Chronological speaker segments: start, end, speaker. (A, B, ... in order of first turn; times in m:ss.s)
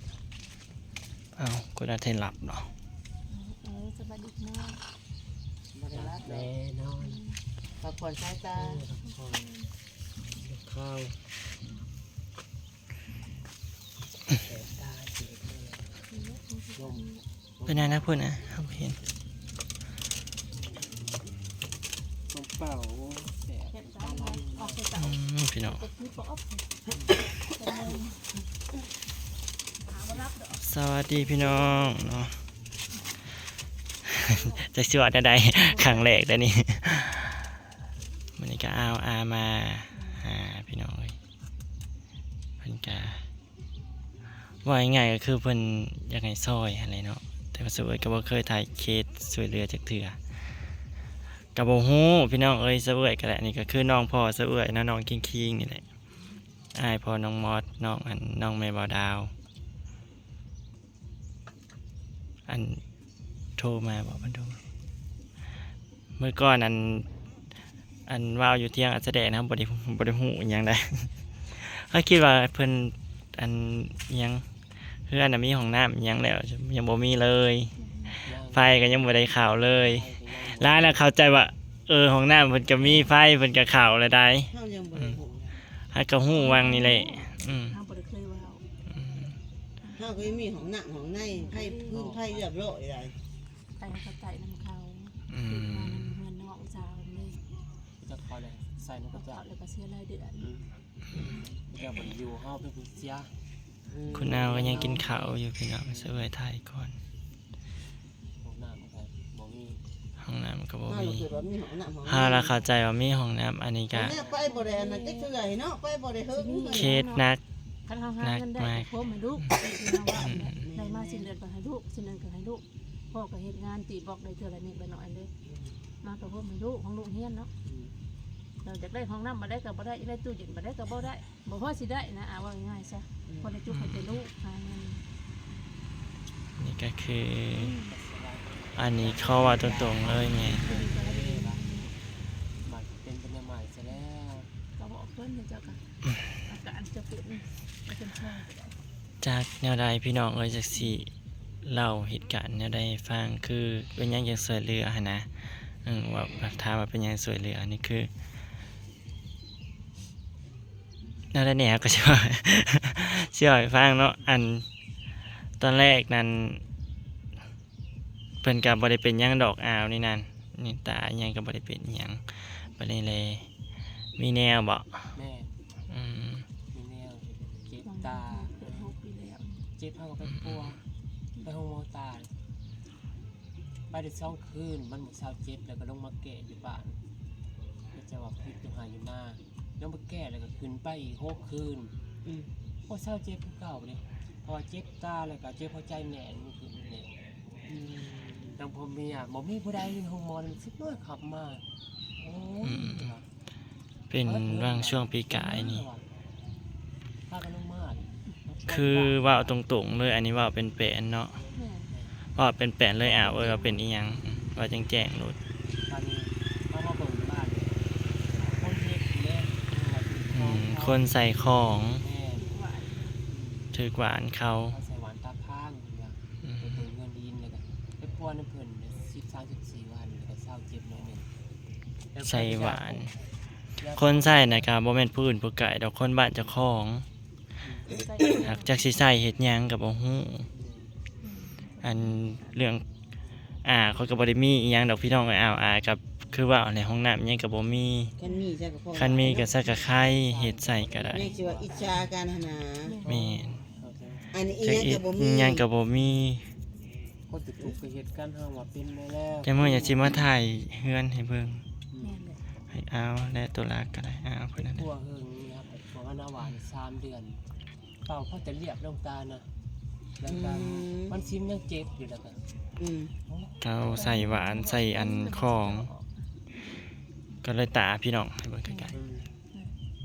0:01.3-0:02.7 A
0:03.3-0:04.8 B
0:05.7-0:06.5 C
0:05.9-0:07.2 D
0:07.0-0:07.4 B
0:07.8-0:08.8 C
0:08.5-0:09.4 D
0:09.0-0:09.7 B
0:10.4-0:11.2 D
0:14.3-0:16.0 D
0:16.1-0:17.2 B
0:16.8-0:17.1 D
0:17.6-0:18.0 D
0:17.6-0:19.0 A
0:22.3-0:24.9 D
0:23.7-0:26.6 B
0:24.9-0:25.8 A
0:27.4-0:28.2 B
0:29.8-0:32.2 B
0:30.6-0:32.4 A
0:34.0-0:37.4 A
0:34.3-0:34.6 B
0:35.6-0:36.2 B
0:38.4-0:41.2 A
0:39.9-0:40.3 B
0:42.6-0:43.2 A
0:44.6-0:50.2 A
0:51.5-0:55.8 A
0:56.7-0:59.3 A
1:02.5-1:02.8 A
1:03.6-1:04.6 A
1:06.2-1:07.0 A
1:08.1-1:14.4 A
1:15.1-1:25.2 A
1:17.8-1:18.2 B
1:18.2-1:21.0 D
1:24.5-1:25.6 C
1:25.9-1:27.8 A
1:26.3-1:28.6 B
1:28.8-1:29.4 A
1:29.8-1:30.4 B
1:30.0-1:33.2 C
1:31.3-1:32.1 B
1:31.9-1:32.5 D
1:33.7-1:37.4 B
1:35.3-1:36.2 A
1:38.0-1:39.5 D
1:39.1-1:40.5 B
1:40.4-1:40.8 D
1:41.4-1:43.3 D
1:43.9-1:45.0 C
1:44.1-1:46.9 A
1:44.3-1:45.2 D
1:45.8-1:46.2 D
1:48.4-1:49.8 D
1:50.2-1:51.3 A
1:50.9-1:52.6 C
1:52.0-1:54.2 A
1:53.9-1:57.0 C
1:54.0-1:54.4 D
1:54.4-1:55.3 B
1:56.3-1:57.3 B
1:56.7-1:57.4 A
1:57.9-2:05.3 B
1:58.2-1:59.5 A
2:00.2-2:00.6 A
2:00.6-2:01.3 C
2:06.0-2:07.5 B
2:07.6-2:08.0 D
2:08.6-2:15.0 B
2:13.7-2:14.2 A
2:16.6-2:17.7 A
2:17.5-2:17.9 B
2:17.8-2:21.6 D
2:18.7-2:20.6 A
2:20.4-2:22.0 B
2:22.6-2:24.5 D
2:24.7-2:25.8 B
2:26.3-2:28.8 B
2:29.2-2:31.1 A
2:30.7-2:31.0 B
2:31.6-2:38.1 A
2:41.3-2:44.6 A
2:45.6-2:46.6 A
2:48.4-2:53.4 A
2:54.2-2:55.2 A
2:55.1-2:55.5 D
2:55.9-2:56.5 A
2:56.7-2:58.9 D
2:57.8-2:59.7 B
2:59.8-3:00.8 D
3:00.2-3:00.8 A
3:01.4-3:02.3 D
3:03.9-3:07.0 D
3:07.9-3:11.9 D
3:12.2-3:12.5 C
3:12.8-3:17.1 D
3:17.7-3:18.5 C
3:18.5-3:21.6 D
3:22.2-3:23.3 D
3:22.6-3:23.1 A
3:24.1-3:25.8 A
3:24.2-3:26.0 D
3:27.3-3:29.5 D
3:28.7-3:31.4 A
3:31.5-3:31.9 B
3:31.9-3:32.1 D
3:32.3-3:35.4 A
3:33.1-3:33.8 B
3:35.8-3:41.0 D
3:40.3-3:42.0 A
3:42.0-3:42.5 D
3:42.4-3:43.2 B
3:43.3-3:43.8 D
3:43.7-3:44.8 A
3:44.7-3:51.3 D
3:46.4-3:46.7 A
3:52.1-3:53.1 D
3:52.2-3:53.2 A
3:53.8-3:54.7 D
3:53.8-3:57.0 A
3:57.6-3:57.9 D
3:57.8-3:58.9 B
3:58.3-4:00.5 A
4:00.5-4:00.9 D
4:01.2-4:02.1 B
4:01.8-4:02.8 A
4:03.6-4:08.1 A
4:08.2-4:09.5 C
4:08.9-4:11.3 A
4:09.4-4:12.1 D
4:11.1-4:13.0 C
4:12.8-4:13.1 B
4:13.0-4:14.3 D
4:13.0-4:13.6 A
4:14.3-4:15.6 C
4:14.6-4:16.5 A
4:17.3-4:20.2 D
4:19.4-4:21.6 A
4:21.9-4:22.2 D
4:22.0-4:22.4 B
4:22.7-4:24.8 A
4:24.6-4:27.4 D
4:28.0-4:29.5 D
4:30.2-4:32.4 D
4:30.3-4:31.1 C
4:32.8-4:33.1 C
4:33.3-4:33.5 D
4:33.6-4:35.9 A
4:33.9-4:36.1 B
4:37.4-4:39.0 A
4:38.6-4:38.9 B
4:38.9-4:39.3 D